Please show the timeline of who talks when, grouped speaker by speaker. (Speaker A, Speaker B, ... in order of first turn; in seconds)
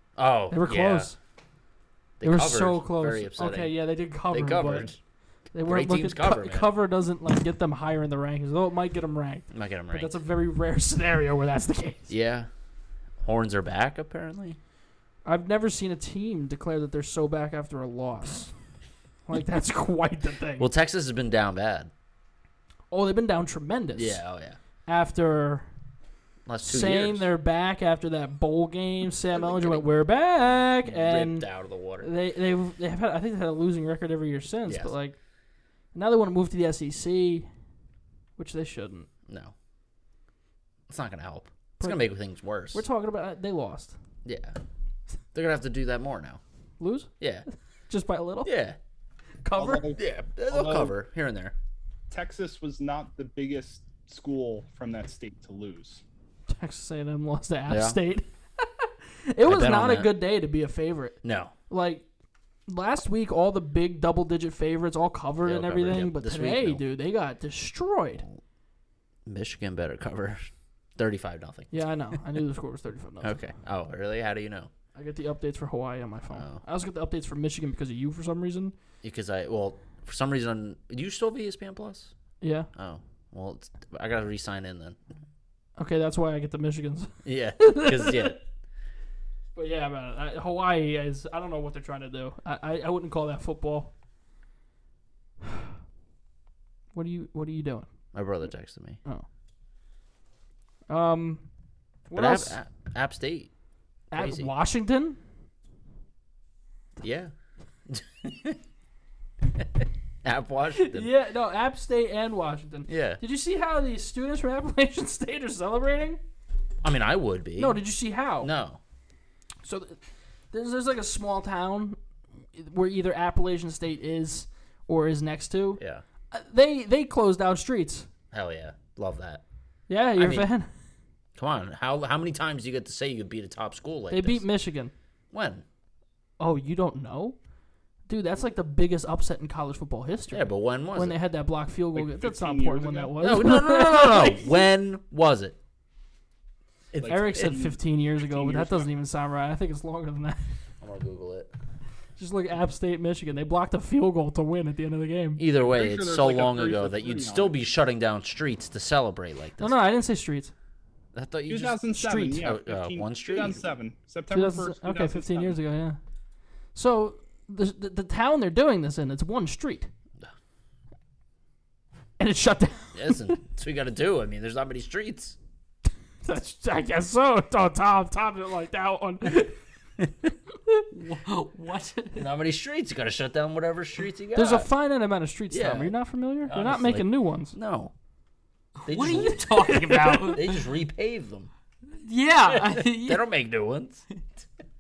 Speaker A: 0.2-1.1, 2.2-3.8, 4.3-5.0, 5.6-6.7, 9.5-10.1, 12.1-12.5, 13.2-14.6, 20.6-21.9, 23.9-24.6, 26.5-27.3, 29.3-29.8, 30.8-32.1, 34.7-34.9, 39.3-39.5, 40.9-42.8, 44.2-44.6, 45.3-46.4, 47.2-47.5, 48.5-48.8, 50.0-51.5, 57.7-58.0, 59.4-60.1, 61.2-61.5, 65.5-66.8, 69.3-71.8, 73.2-74.7, 76.3-76.6, 79.0-82.1, 82.8-85.0, 87.2-88.4, 98.1-99.0, 102.1-103.5, 104.1-104.5, 107.0-107.3, 107.9-108.6, 109.5-111.1, 112.9-113.2, 116.8-117.8, 118.4-118.8, 125.8-126.0, 128.3-129.4, 130.2-130.5, 131.4-134.4, 135.3-135.7, 140.3-141.2, 143.2-145.6, 146.9-147.6, 150.8-151.5, 155.4-159.8, 161.1-161.8, 162.3-163.6, 172.9-175.4, 182.1-184.7, 185.5-187.9, 188.9-189.8, 190.3-191.5, 192.5-194.1
Speaker B: 0.5-1.1, 2.2-4.9, 5.5-12.1, 15.2-18.5, 19.3-20.7, 22.9-24.2, 24.9-25.7, 26.6-31.5, 32.0-35.2, 35.9-37.5, 38.4-39.1, 41.8-42.1, 42.7-44.0, 46.8-47.1, 47.9-48.5, 49.4-49.9, 56.5-61.2, 61.7-62.1, 62.7-68.2, 71.7-73.3, 75.0-78.7, 82.4-82.7, 85.8-88.4, 89.6-93.9, 96.9-97.9, 100.9-101.5, 102.1-102.6, 104.1-105.2, 110.7-116.2, 117.6-118.5, 119.6-120.0, 120.5-122.0, 122.5-128.1, 129.9-130.7, 134.1-134.9, 136.4-137.4, 138.1-144.6, 147.1-150.5, 152.2-155.4, 159.6-160.5, 161.9-162.5, 164.3-166.0, 166.8-169.9, 172.2-173.4, 176.2-179.6, 184.3-187.6, 189.4-190.4
Speaker C: 49.6-50.9, 52.1-56.0, 141.9-143.3, 147.0-148.9, 155.7-157.6, 161.5-165.6
Speaker D: 180.9-182.3, 188.8-190.6, 192.0-193.3